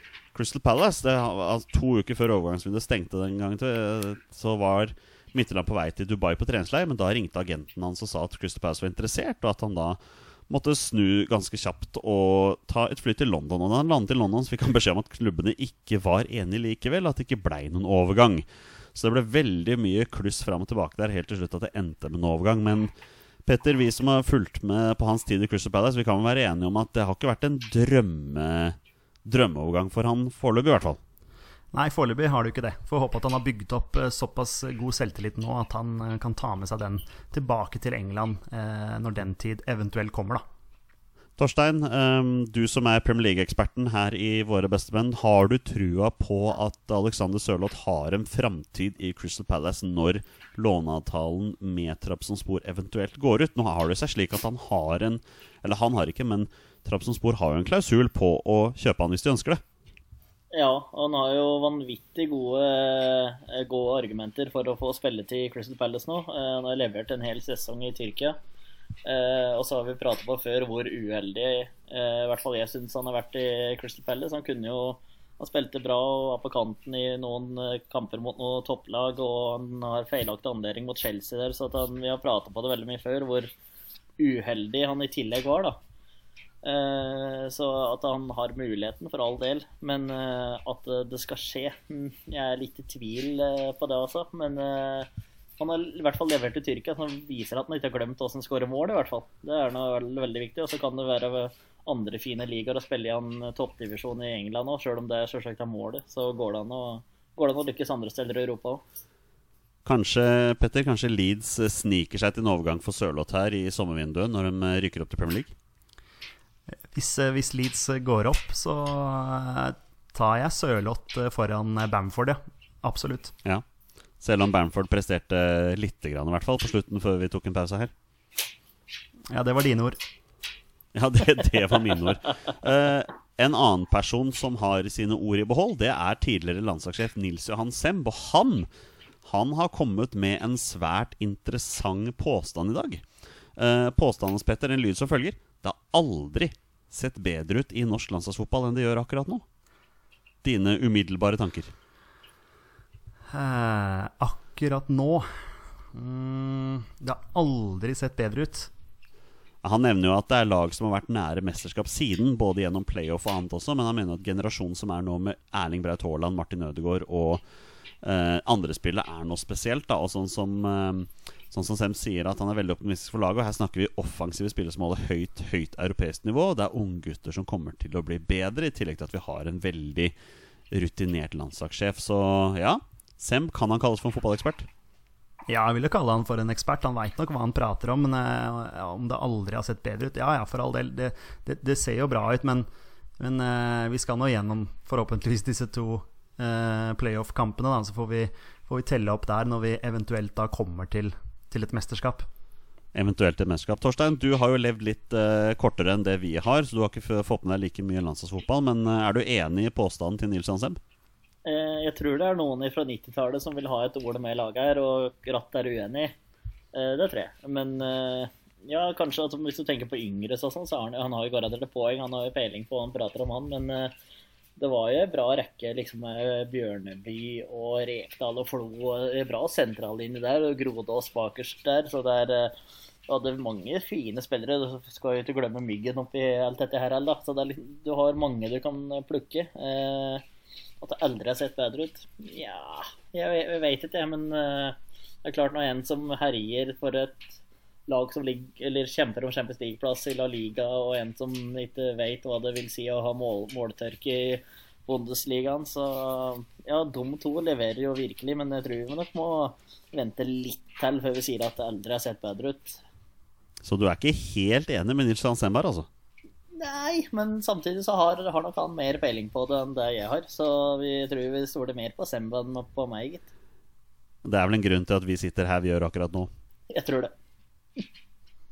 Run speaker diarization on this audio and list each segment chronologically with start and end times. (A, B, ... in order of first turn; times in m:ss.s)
0:00.3-0:22.9 A
0:23.5-0:31.0 A
0:31.7-0:40.4 B
0:41.4-0:59.6 A
1:00.5-1:08.4 C
1:09.0-1:23.5 C
1:24.2-1:25.8 C
1:26.6-1:48.8 C
1:49.8-1:55.5 A
1:56.9-2:03.3 B
2:04.2-2:07.9 A
2:09.3-2:10.0 B
2:11.0-2:18.7 A
2:19.2-2:23.0 A
2:23.6-2:29.4 A
2:30.4-2:31.7 A
2:33.3-2:38.7 B
2:39.6-2:47.4 A
2:48.0-3:00.2 A
3:00.7-3:04.7 A
3:05.5-3:12.7 B
3:13.2-3:22.3 B
3:22.9-3:30.8 A
3:31.4-3:36.2 C
3:36.7-3:43.9 C
3:44.6-3:52.6 C
3:53.1-4:00.2 C
4:00.8-4:07.4 C
4:07.9-4:22.8 C
4:23.6-4:25.9 A
4:26.6-4:33.3 C
4:34.2-4:36.3 A
4:36.7-4:37.1 C